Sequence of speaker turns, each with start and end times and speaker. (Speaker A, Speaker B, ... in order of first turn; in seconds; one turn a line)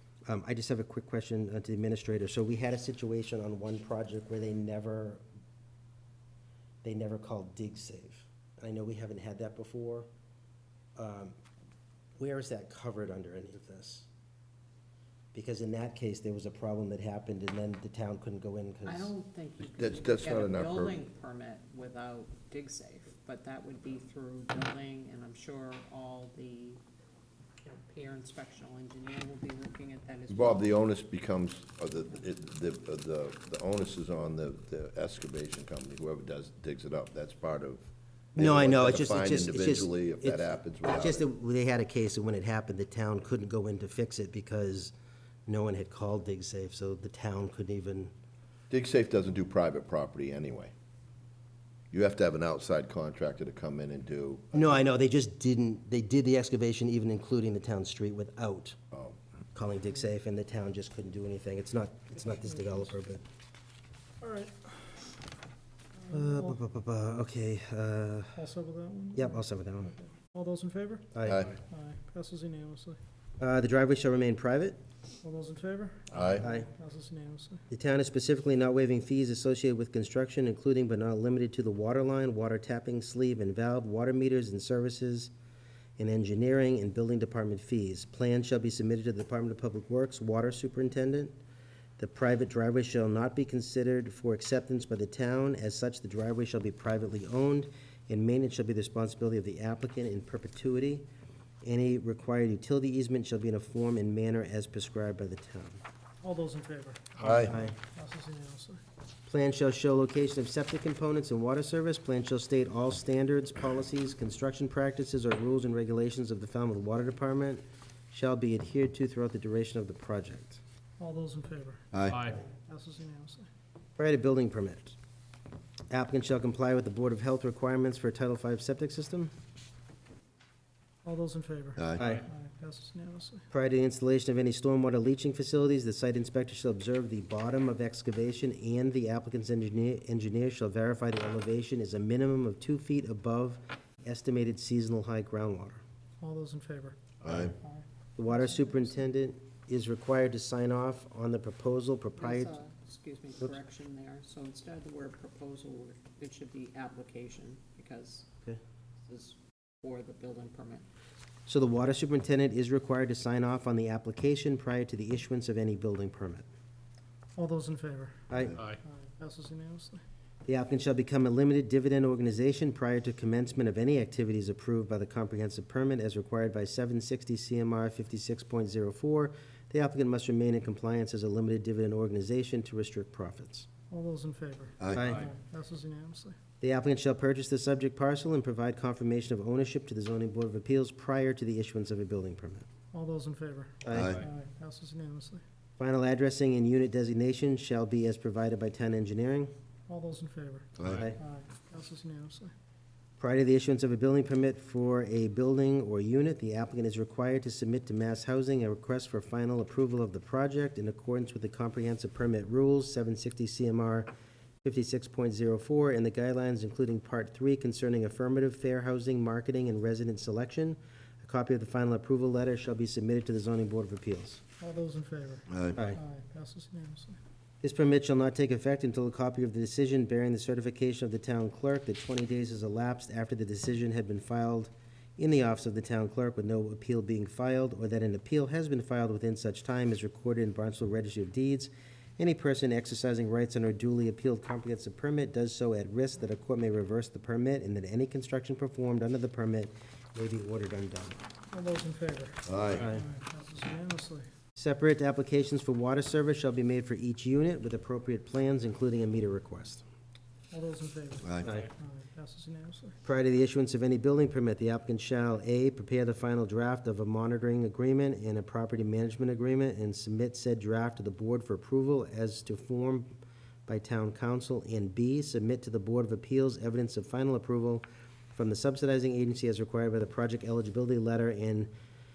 Speaker A: 0.2-5.2
Speaker A: 6.8-10.1
Speaker A: 10.9-11.3
Speaker A: 12.2-14.1
Speaker A: 15.3-19.1
Speaker B: 18.8-26.8
Speaker C: 19.6-21.0
Speaker B: 27.6-30.8
Speaker C: 30.3-41.2
Speaker A: 38.4-44.9
Speaker A: 45.5-48.1
Speaker C: 48.7-50.7
Speaker C: 51.9-54.7
Speaker A: 54.5-58.8
Speaker C: 58.9-59.2
Speaker A: 59.5-63.2
Speaker D: 64.2-64.9
Speaker D: 66.0-66.6
Speaker A: 66.1-68.4
Speaker D: 68.3-69.4
Speaker A: 69.1-69.9
Speaker D: 69.9-71.1
Speaker A: 71.1-71.5
Speaker C: 71.2-71.6
Speaker D: 71.6-73.0
Speaker A: 73.4-74.8
Speaker D: 75.2-77.7
Speaker C: 76.1-76.4
Speaker A: 76.4-76.7
Speaker A: 77.7-85.3
Speaker A: 86.0-91.4
Speaker A: 92.0-101.1
Speaker A: 101.6-105.8
Speaker D: 106.2-108.8
Speaker C: 107.2-107.5
Speaker A: 107.5-107.8
Speaker A: 109.3-120.6
Speaker D: 121.0-123.5
Speaker C: 121.9-122.3
Speaker A: 124.0-125.0
Speaker A: 125.9-129.3
Speaker D: 131.0-133.4
Speaker C: 131.8-132.1
Speaker A: 132.0-132.2
Speaker A: 133.5-145.8
Speaker D: 146.2-148.7
Speaker C: 147.2-147.5
Speaker A: 148.2-152.6
Speaker B: 152.2-158.3
Speaker B: 159.1-160.8
Speaker A: 161.5-166.4
Speaker D: 167.3-170.0
Speaker A: 168.3-168.6
Speaker A: 170.4-183.7
Speaker D: 183.9-186.3
Speaker C: 184.8-185.1
Speaker A: 184.9-185.3
Speaker A: 186.6-192.7
Speaker D: 192.9-195.4
Speaker A: 193.8-194.2
Speaker C: 193.9-194.2
Speaker A: 195.8-199.5
Speaker D: 199.9-202.5
Speaker C: 200.8-201.0
Speaker A: 200.8-201.2
Speaker A: 203.2-214.1
Speaker A: 214.6-224.4
Speaker D: 224.6-227.2
Speaker C: 225.5-225.8
Speaker A: 227.6-251.2
Speaker D: 251.5-254.2
Speaker C: 252.5-252.9
Speaker A: 252.8-253.0
Speaker A: 254.6-259.8
Speaker D: 260.5-262.9
Speaker A: 261.4-261.7
Speaker A: 263.0-281.7